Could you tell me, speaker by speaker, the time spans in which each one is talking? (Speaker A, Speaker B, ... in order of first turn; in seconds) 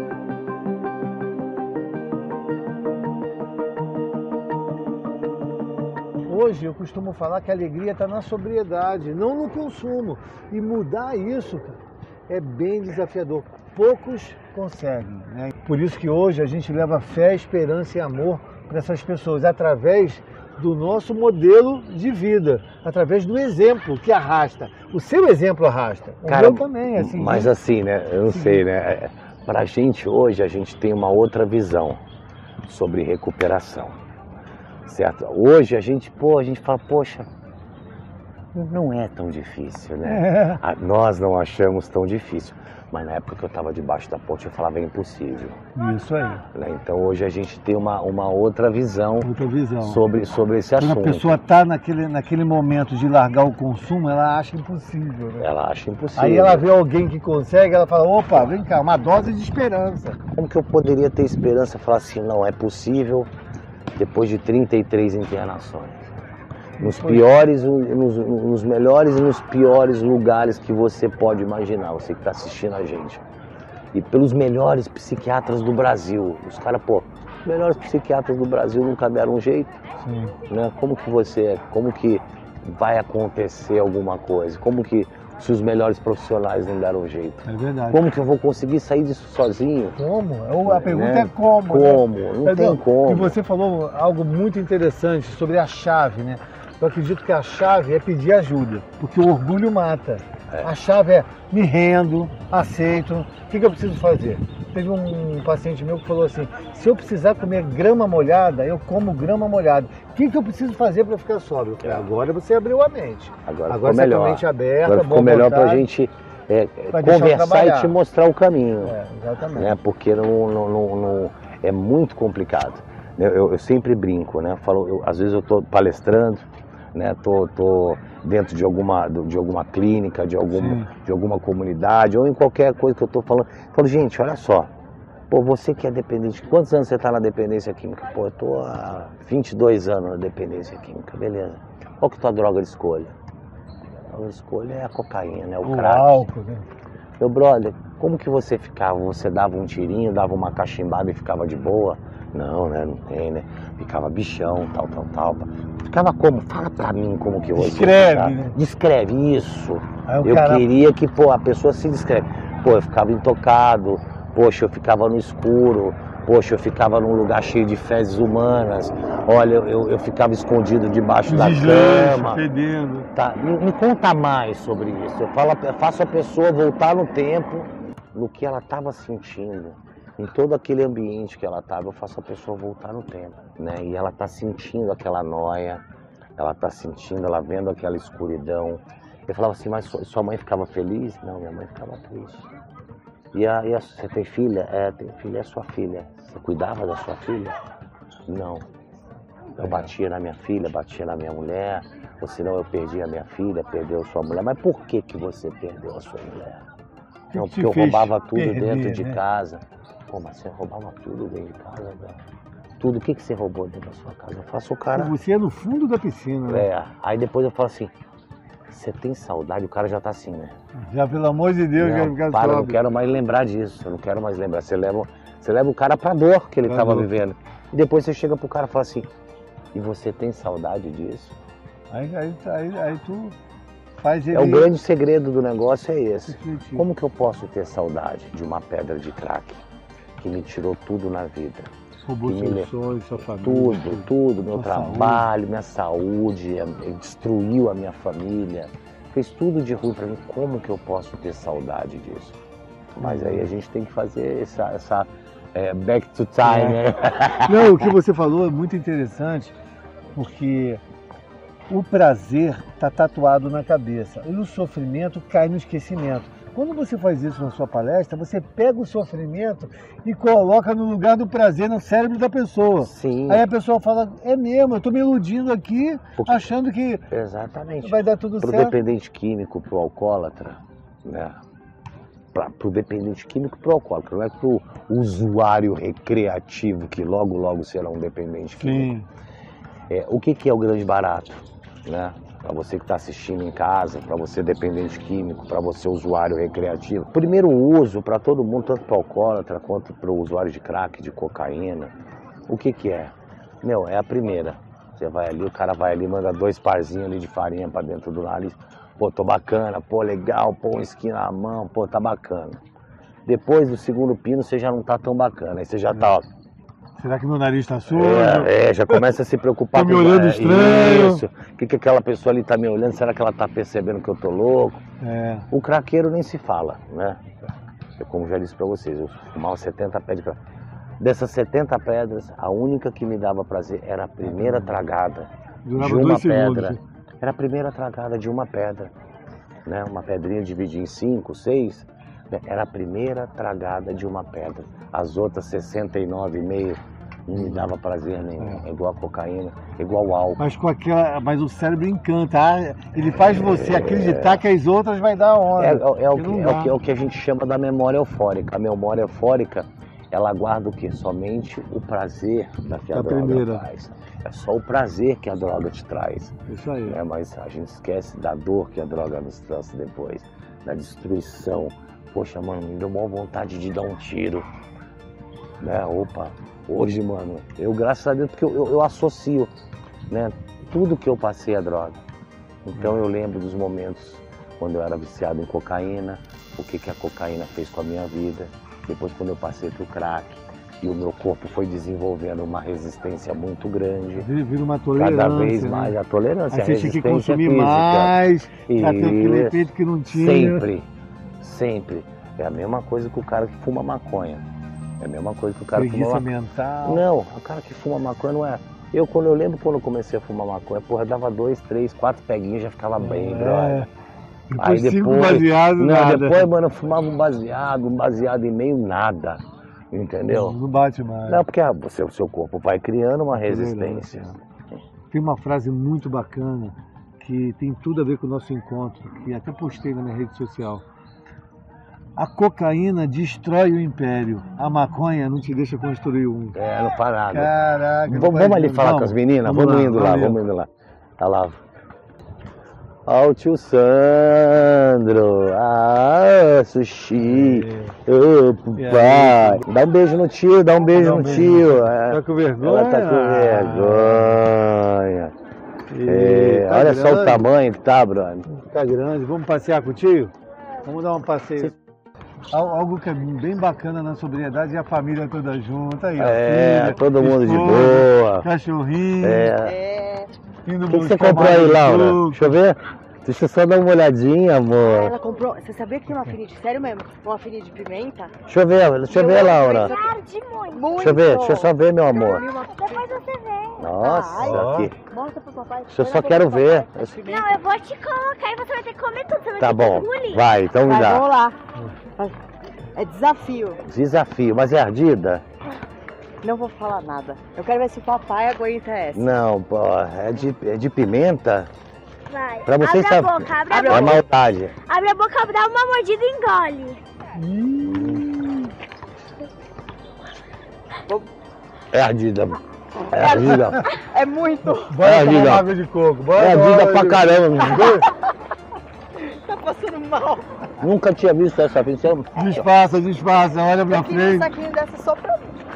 Speaker A: 6.3-27.5, 28.3-28.6, 40.0-40.6, 45.8-46.5, 49.2-50.0, 50.8-55.5, 56.2-60.2, 66.8-67.3, 80.0-80.4, 87.5-88.1, 90.0-115.9, 116.9-118.0, 118.8-119.8, 130.5-130.9, 145.6-146.7, 157.5-158.6, 160.1-160.7, 171.2-173.1, 199.6-199.9, 207.3-209.2, 214.9-216.7, 220.8-222.8, 226.7-227.1, 231.9-233.4, 234.0-234.7, 236.3-236.9, 242.0-245.3, 253.0-253.5, 256.4-259.5, 260.1-260.8, 261.7-277.1, 277.8-278.8, 288.6-289.1, 317.0-319.0, 319.7-321.2, 325.0-325.5, 334.2-334.8, 335.6-336.8, 347.4-347.7, 350.4-356.8, 362.9-363.7, 366.5-367.0, 394.2-396.0, 396.5-400.7, 405.7-407.1, 413.0-413.9, 414.5-416.5, 420.3-421.4, 423.3-424.4, 425.1-430.8, 432.2-436.6, 437.3-440.4, 447.2-447.9, 448.8-449.7, 450.9-454.4, 455.9-457.5, 458.5-461.8, 462.5-469.5, 470.7-472.6, 484.4-484.9, 507.4-508.7, 514.9-518.1, 522.3-524.5
Speaker B: 26.3-32.0, 32.7-34.0, 34.9-37.3, 38.5-45.6, 46.5-49.3, 49.8-51.4, 55.4-56.7, 60.3-63.3, 64.0-66.1, 66.8-73.2, 73.9-79.8, 80.5-90.0, 90.7-93.3, 113.5-119.0, 119.6-134.7, 135.3-143.1, 144.1-146.2, 147.2-172.4, 173.1-185.8, 186.4-192.5, 193.3-197.6, 198.3-198.7, 199.6-206.7, 207.3-212.2, 212.8-215.1, 216.5-217.9, 218.7-220.5, 221.8-229.1, 229.7-231.3, 234.3-239.6, 240.2-241.7, 242.2-242.7, 243.2-252.4, 252.9-257.9, 272.8-273.4, 276.2-276.5, 277.1-281.4, 282.3-288.9, 289.9-301.9, 302.5-312.6, 313.3-316.3, 317.9-324.8, 325.5-330.4, 331.0-338.9, 339.7-350.4, 353.3-354.4, 355.6-374.5, 375.6-379.5, 380.1-382.0, 382.7-394.3, 395.0-400.9, 401.4-404.4, 405.0-406.3, 406.8-413.9, 414.6-420.6, 421.3-424.4, 436.5-437.5, 438.1-440.7, 441.2-441.6, 443.1-455.3, 456.1-458.5, 466.2-468.5, 469.2-469.8, 470.9-475.1, 478.5-479.9, 481.0-482.5, 483.8-485.0, 485.9-487.2, 489.6-491.3, 493.8-495.4, 499.1-501.7, 502.7-504.7, 507.8-508.3, 511.9-513.9, 515.0-515.7, 516.4-518.1, 520.8-522.7
Speaker C: 469.5-470.3, 474.8-478.3, 479.1-480.1, 480.7-487.6, 490.8-491.6, 492.9-493.8, 496.4-499.3, 503.7-504.2, 513.1-515.0, 517.8-518.2, 519.2-520.7, 523.9-525.6
Speaker D: 479.2-481.1, 482.7-483.7, 487.2-490.5, 502.3-504.2, 504.9-507.0